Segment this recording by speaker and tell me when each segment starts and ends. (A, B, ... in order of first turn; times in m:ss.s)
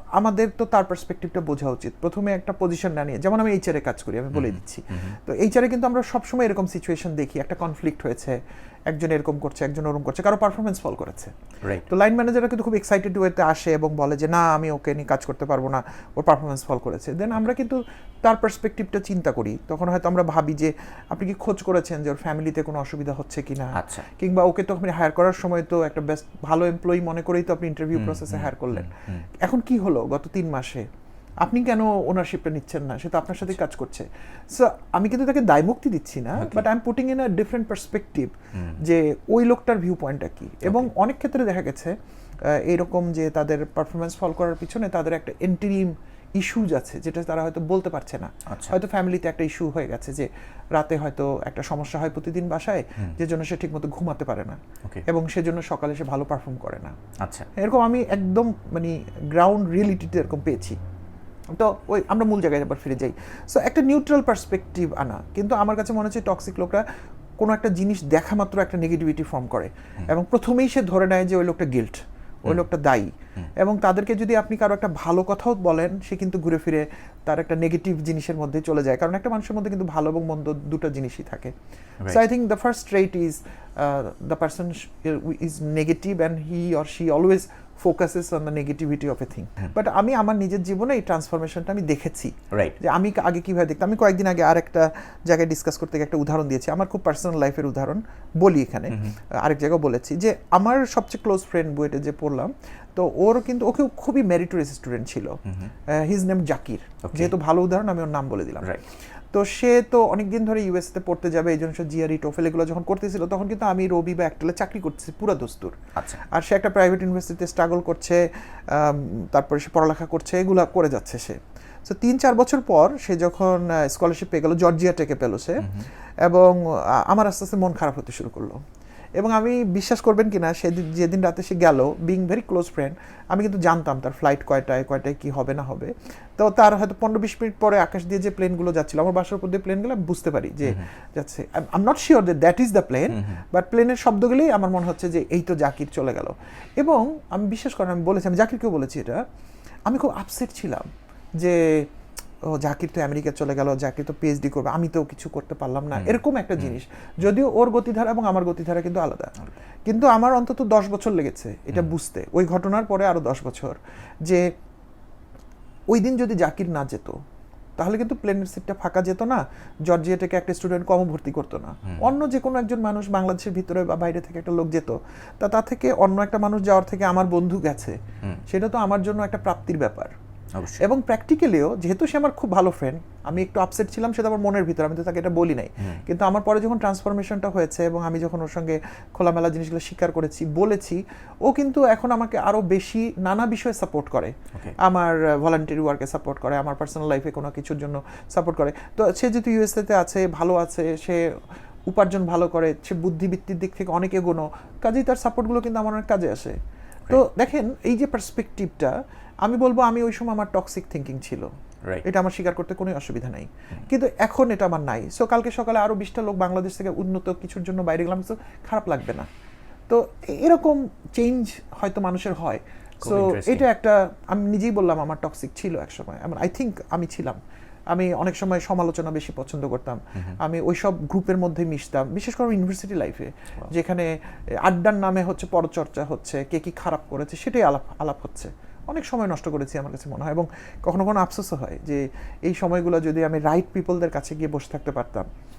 0:00.2-0:08.4 A
0:04.3-0:05.2 B
0:08.9-0:11.3 A
0:11.8-0:30.8 A
0:23.7-0:24.1 B
0:27.9-0:29.2 B
0:31.4-0:41.9 A
0:36.4-0:36.6 B
0:38.5-0:38.8 B
0:40.6-0:40.9 B
0:42.5-0:56.9 A
0:48.5-0:48.8 B
0:57.2-0:57.5 B
0:57.6-1:00.8 A
1:01.6-1:06.8 A
1:07.4-1:21.5 A
1:22.1-1:48.8 A
1:32.5-1:32.8 B
1:38.9-1:39.2 B
1:45.4-1:45.7 B
1:47.0-1:47.3 B
1:49.3-2:05.7 A
1:56.0-1:56.2 B
2:05.6-2:05.9 B
2:06.2-2:08.6 A
2:09.2-2:29.2 A
2:23.1-2:23.4 B
2:29.9-2:30.9 A
2:31.4-2:31.8 A
2:32.5-2:39.3 A
2:35.9-2:36.7 B
2:39.9-2:44.4 A
2:45.9-2:47.1 A
2:47.8-2:58.0 A
2:51.9-2:52.1 B
2:58.5-3:00.1 A
3:00.5-3:00.8 B
3:00.8-3:21.2 A
3:21.9-3:26.6 A
3:27.1-3:31.5 A
3:32.0-3:39.3 A
3:39.9-3:47.4 A
3:43.0-3:43.7 B
3:47.9-4:05.3 A